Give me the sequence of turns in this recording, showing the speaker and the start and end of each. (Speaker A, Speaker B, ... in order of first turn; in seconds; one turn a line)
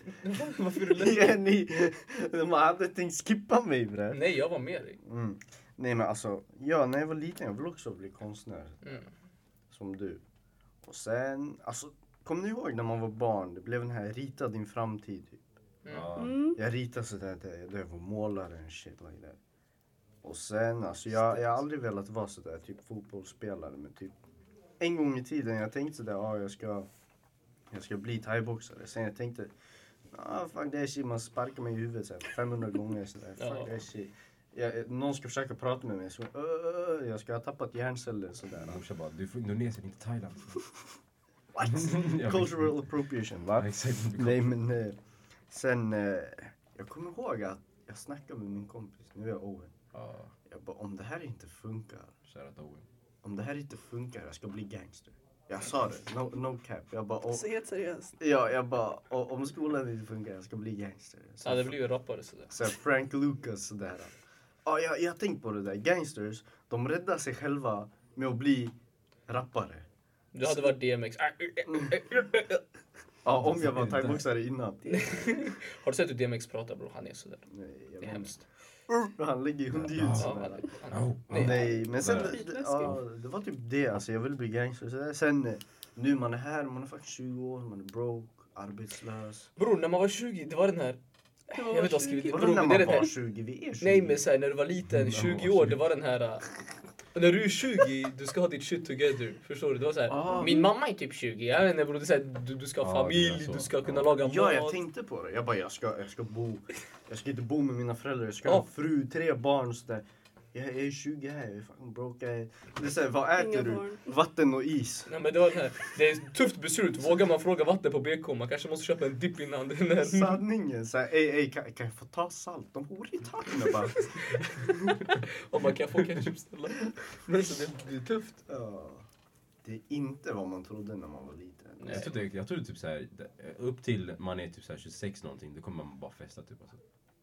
Speaker A: 0.2-1.3
Speaker B: 0.8-4.2
Speaker A: 4.1-5.0
Speaker B: 5.0-9.0
Speaker A: 8.8-9.1
Speaker B: 9.7-10.2
Speaker B: 10.8-15.4
Speaker A: 15.8-16.1
Speaker C: 15.9-16.4
Speaker D: 16.1-16.6
Speaker B: 16.5-19.4
Speaker B: 20.2-24.1
Speaker B: 24.8-26.9
Speaker B: 27.7-29.5
Speaker B: 30.1-38.8
Speaker A: 33.4-33.7
Speaker C: 38.5-40.6
Speaker B: 41.5-45.0
Speaker C: 41.6-42.7
Speaker C: 43.6-44.5
Speaker B: 45.5-49.7
Speaker C: 49.9-50.3
Speaker B: 50.5-52.1
Speaker C: 52.3-52.9
Speaker B: 53.2-57.4
Speaker D: 57.3-58.1
Speaker B: 58.2-61.7
Speaker A: 61.4-62.5
Speaker B: 62.5-68.7
Speaker B: 69.3-69.8
Speaker A: 70.3-72.6
Speaker B: 73.2-75.0
Speaker C: 73.3-74.2
Speaker A: 74.8-77.5
Speaker B: 77.5-78.3
Speaker A: 78.0-78.4
Speaker B: 78.9-80.7
Speaker C: 79.7-80.3
Speaker A: 80.1-81.7
Speaker C: 80.9-83.0
Speaker B: 81.3-89.5
Speaker D: 81.4-82.9
Speaker A: 89.6-91.0
Speaker D: 91.5-92.8
Speaker A: 91.5-93.1
Speaker B: 92.2-94.2
Speaker A: 93.8-96.5
Speaker C: 94.8-95.8
Speaker A: 97.1-104.8
Speaker C: 100.1-100.6
Speaker D: 100.3-100.7
Speaker C: 102.8-104.1
Speaker B: 104.2-115.1
Speaker D: 113.3-114.1
Speaker A: 115.1-120.4
Speaker B: 120.0-125.1
Speaker A: 123.9-124.2
Speaker A: 125.1-128.4
Speaker B: 128.4-129.0
Speaker B: 129.6-132.1
Speaker A: 131.8-132.1
Speaker C: 131.9-136.8